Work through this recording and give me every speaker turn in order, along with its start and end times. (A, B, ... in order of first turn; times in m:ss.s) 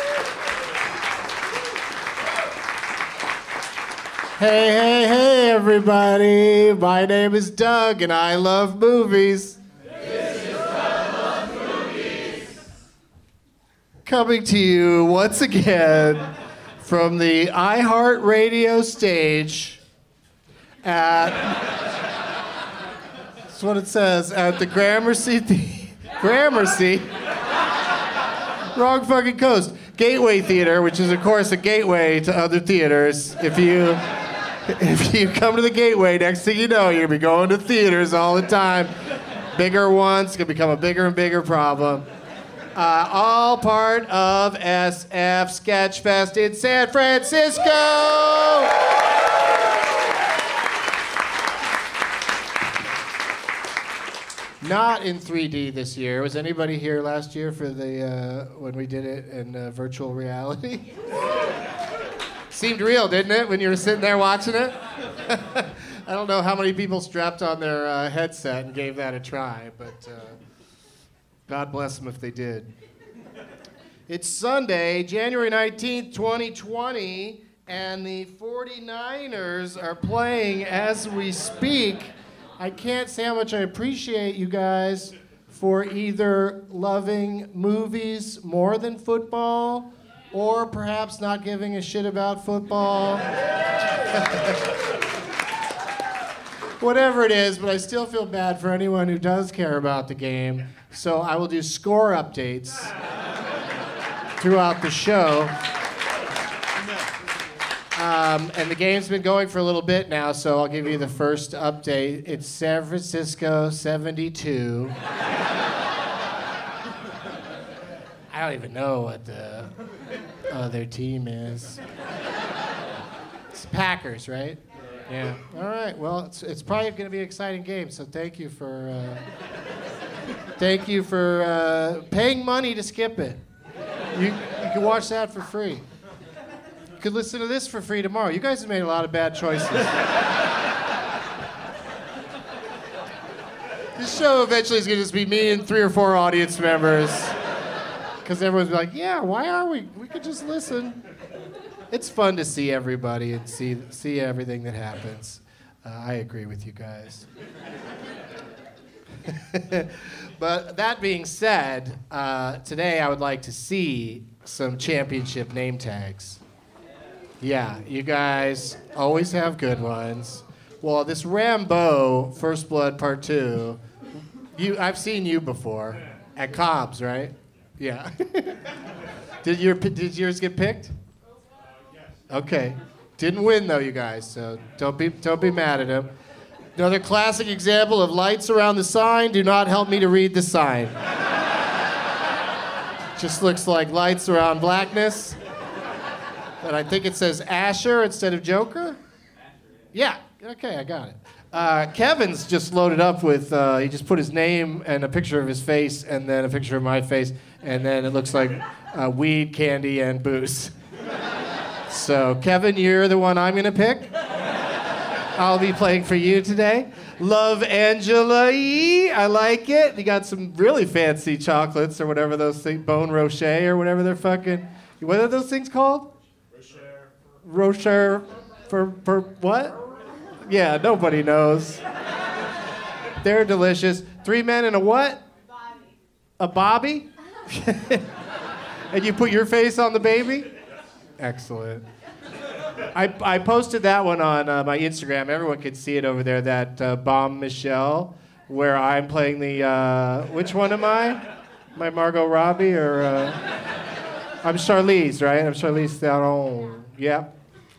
0:04.4-0:09.6 A
0:14.0-0:16.3 A
0:16.8-0:19.8 A
0:20.8-0:21.8 A
0:23.5-0:27.1 A
0:28.7-0:34.0 A
0:34.7-0:38.9 A
0:39.5-0:42.0 A
0:42.7-0:48.8 A
0:54.6-1:00.8 A
1:02.5-1:10.4 A
1:11.5-1:12.7 A
1:14.1-1:33.2 A
1:34.1-1:34.6 A
1:36.8-1:42.9 A
1:44.4-1:45.5 A
1:47.9-1:54.9 A
1:58.3-1:59.7 A
2:00.5-2:01.8 A
2:03.5-2:09.2 A
2:10.6-2:13.4 A
2:14.1-2:15.8 A
2:17.0-2:19.9 A
2:24.0-2:27.3 A
2:28.2-2:31.0 A
2:31.9-2:37.2 A
2:39.2-2:46.4 A
2:47.4-2:53.8 A
2:54.5-2:58.7 A
2:59.4-3:00.9 A
3:02.3-3:06.1 A
3:06.7-3:10.9 A
3:13.2-3:15.4 A
3:16.6-3:19.0 A
3:19.9-3:30.7 A
3:31.9-3:34.1 A
3:35.4-3:46.1 A
3:47.4-3:49.8 A
3:50.4-3:51.8 A
3:53.2-3:55.2 A
3:56.4-3:58.1 A
3:58.9-4:00.5 A
4:01.2-4:01.8 A
4:02.9-4:11.2 A
4:11.7-4:13.4 A
4:14.4-4:17.3 A